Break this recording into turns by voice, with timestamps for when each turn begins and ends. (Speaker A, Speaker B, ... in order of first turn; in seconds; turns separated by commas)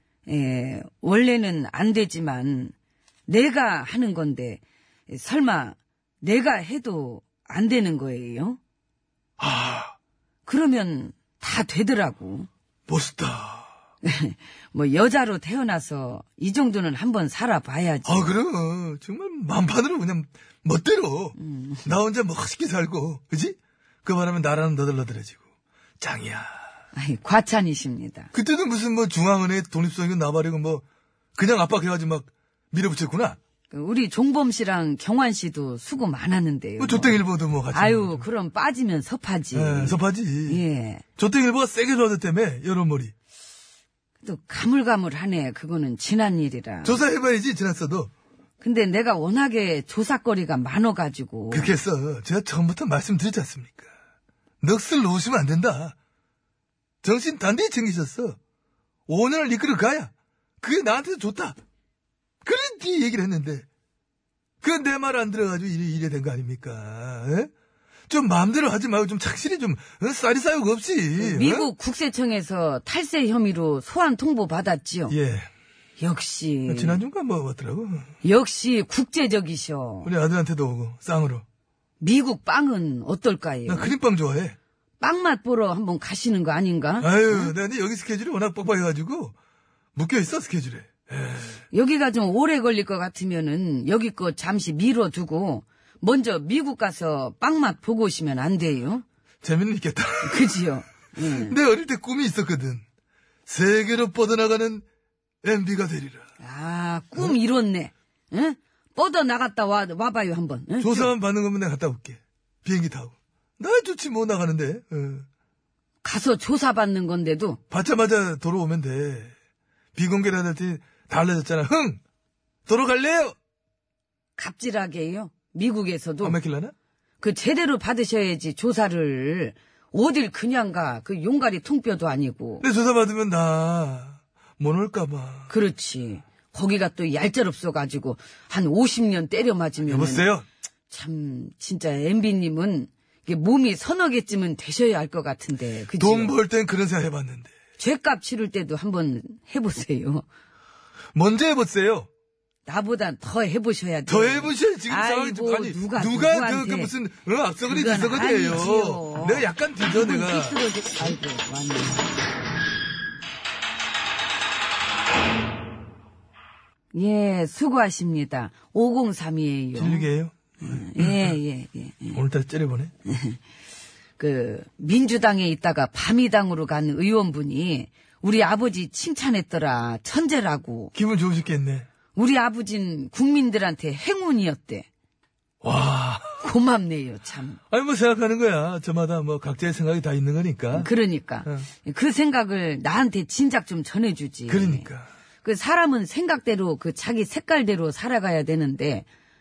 Speaker A: 0.2-2.7, Speaker A: 3.3-8.6, Speaker B: 9.4-9.9, Speaker A: 10.4-12.5, Speaker B: 12.9-13.7, Speaker A: 14.0-18.3, Speaker B: 18.0-25.4, Speaker A: 21.4-21.9, Speaker B: 26.0-26.6, Speaker A: 26.9-28.3, Speaker B: 28.3-30.8, Speaker B: 31.4-33.4, Speaker A: 33.7-41.0, Speaker B: 36.8-38.3, Speaker B: 39.5-40.6, Speaker B: 41.2-43.1, Speaker A: 44.2-47.0, Speaker B: 46.8-48.1, Speaker A: 48.6-51.8, Speaker B: 51.5-53.9, Speaker B: 54.6-55.9, Speaker B: 57.0-58.4, Speaker B: 59.1-61.5, Speaker B: 62.4-63.6, Speaker B: 64.6-67.5, Speaker B: 68.1-71.7, Speaker A: 71.2-75.2, Speaker B: 75.1-75.5, Speaker A: 76.0-77.0, Speaker B: 76.7-78.1, Speaker A: 78.2-80.1, Speaker B: 80.0-81.4, Speaker A: 82.0-83.9, Speaker B: 83.7-84.5, Speaker A: 85.0-87.5, Speaker B: 87.0-89.3, Speaker B: 89.9-91.6, Speaker A: 91.7-99.0, Speaker B: 99.4-102.8, Speaker A: 100.2-101.6, Speaker B: 103.5-104.8, Speaker B: 105.4-106.3, Speaker A: 106.4-111.1, Speaker B: 110.8-115.2, Speaker A: 116.0-117.6, Speaker B: 117.7-119.3, Speaker B: 120.0-122.0, Speaker B: 122.7-123.3, Speaker A: 124.3-126.4, Speaker B: 126.2-126.7, Speaker A: 127.2-132.6, Speaker B: 132.6-135.5, Speaker A: 135.5-140.3, Speaker B: 139.8-140.4, Speaker A: 140.9-146.3, Speaker B: 146.0-147.5, Speaker A: 147.8-150.2, Speaker B: 151.1-152.1, Speaker A: 152.7-156.9, Speaker B: 154.1-160.6, Speaker A: 157.6-162.1, Speaker A: 166.9-170.1, Speaker B: 169.7-171.3, Speaker A: 170.6-172.2, Speaker B: 172.1-172.9, Speaker A: 173.1-173.4, Speaker A: 174.2-180.9, Speaker B: 180.9-181.9, Speaker A: 182.1-184.9, Speaker B: 185.6-186.4, Speaker A: 186.4-187.6, Speaker B: 187.7-190.9, Speaker A: 190.7-194.9, Speaker B: 194.5-195.1, Speaker A: 195.4-199.1